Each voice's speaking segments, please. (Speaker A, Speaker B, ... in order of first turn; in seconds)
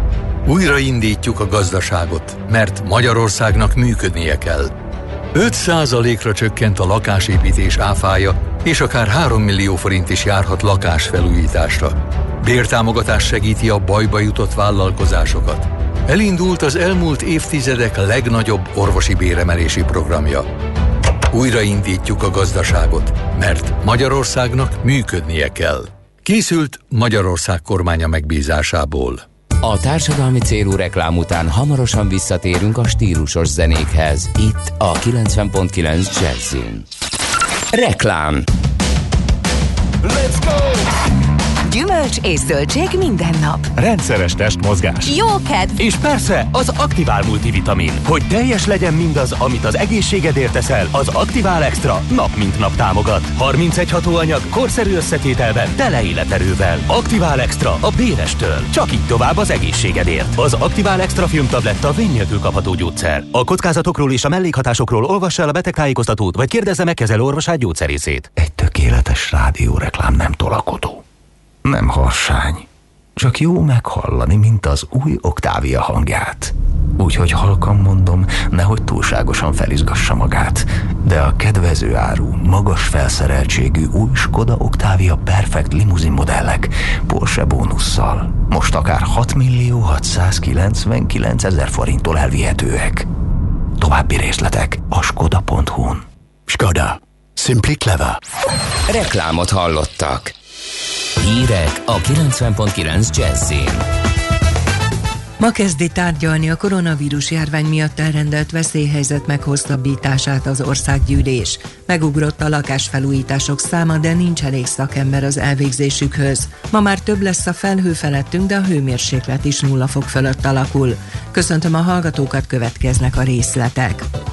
Speaker A: 0.5-4.7, 5.3-20.4, 21.3-29.2
Speaker B: 29.6-36.9, 37.7-38.5, 98.9-100.3, 101.2-103.8
Speaker C: 41.7-43.7, 45.1-45.7
Speaker D: 43.7-45.1, 45.8-68.3
Speaker E: 68.3-71.0, 71.6-93.1, 93.8-96.0
Speaker F: 105.4-124.1